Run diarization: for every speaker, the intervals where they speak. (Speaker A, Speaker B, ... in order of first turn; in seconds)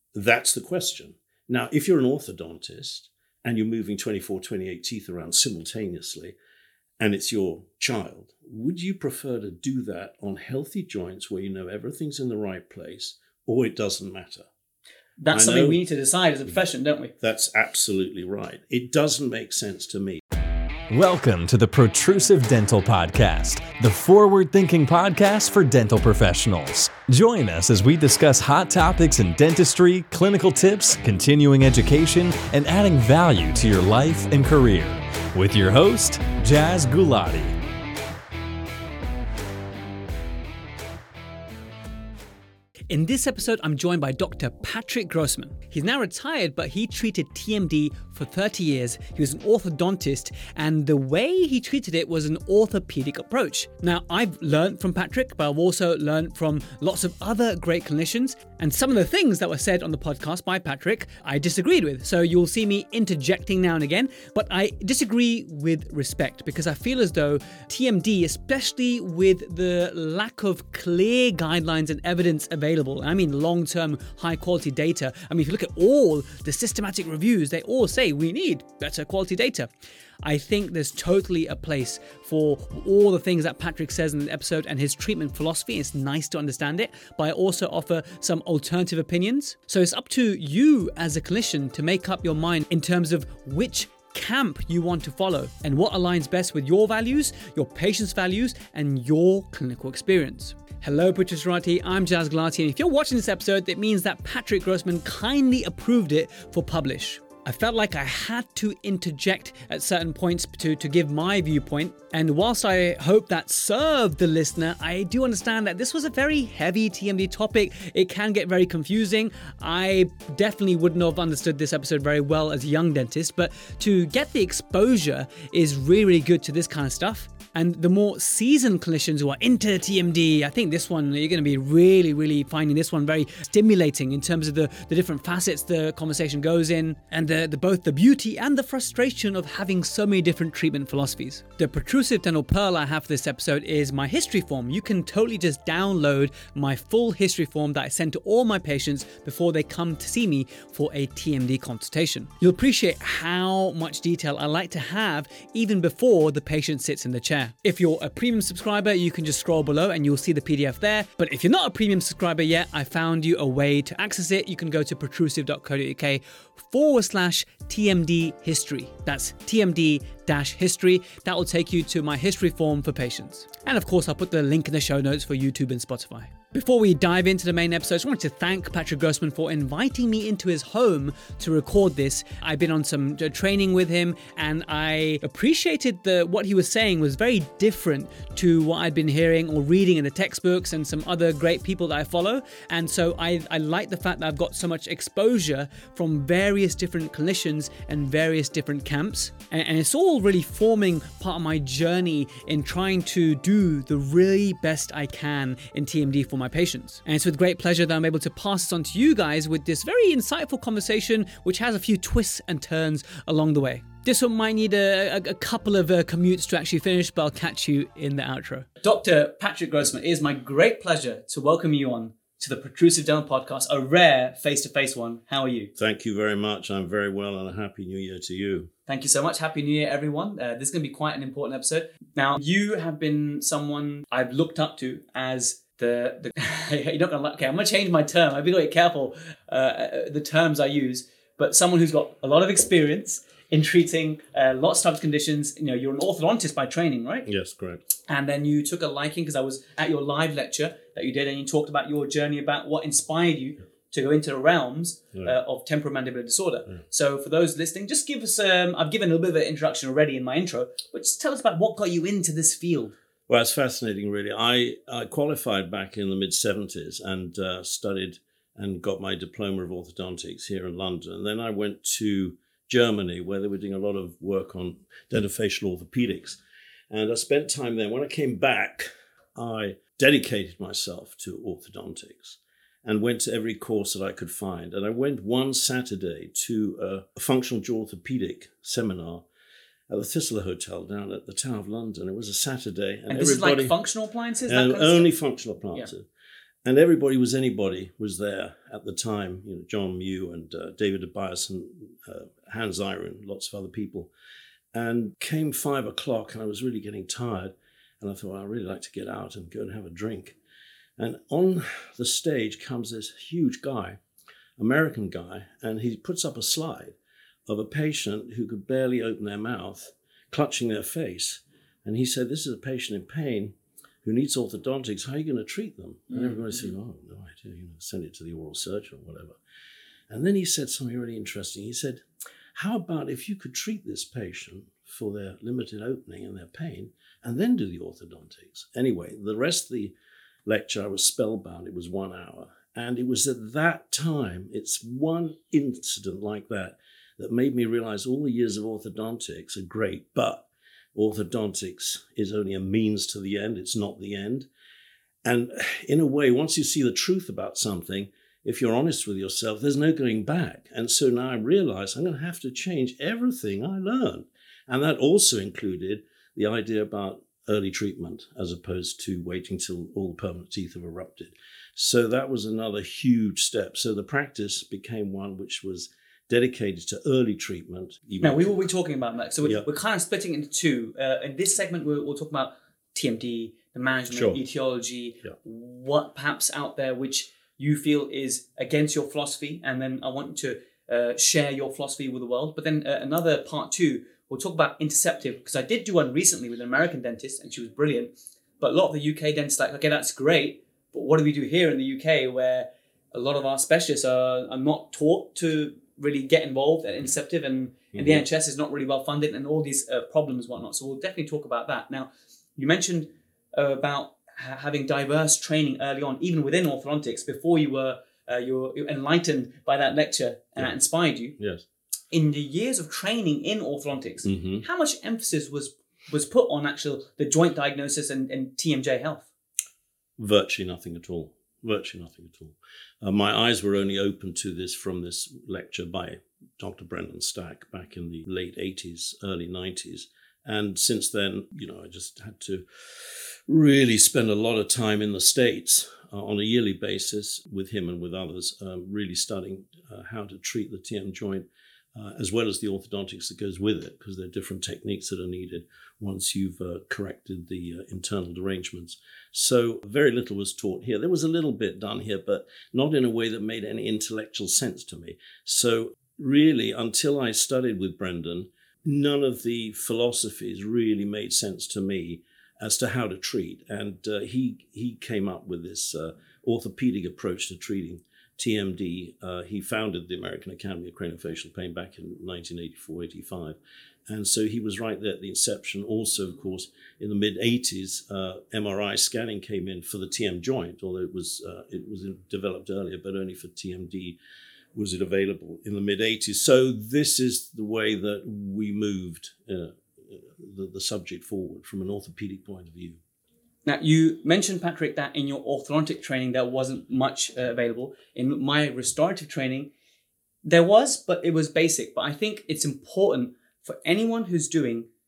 Speaker A: 0.1-6.3, 7.0-14.5, 15.3-15.8, 17.2-20.2, 225.8-228.7, 247.3-247.8, 263.3-276.4, 276.9-289.2, 289.9-293.8, 294.5-296.1, 296.6-304.1, 304.7-310.4, 311.0-314.0, 314.6-317.0, 317.5-329.4, 330.1-339.9, 340.5-354.5, 355.2-378.5, 384.1-384.4, 407.9-408.2, 421.4-421.6, 424.2-424.6, 430.2-442.6, 443.5-483.6, 484.1-494.2, 494.8-503.0
Speaker B: 15.2-17.1, 42.9-79.7, 80.2-225.7, 228.9-247.3, 248.1-262.9, 293.1-295.1, 326.1-326.7, 378.2-421.4, 422.1-429.3, 503.6-509.7, 510.4-514.9
Speaker C: 20.9-37.6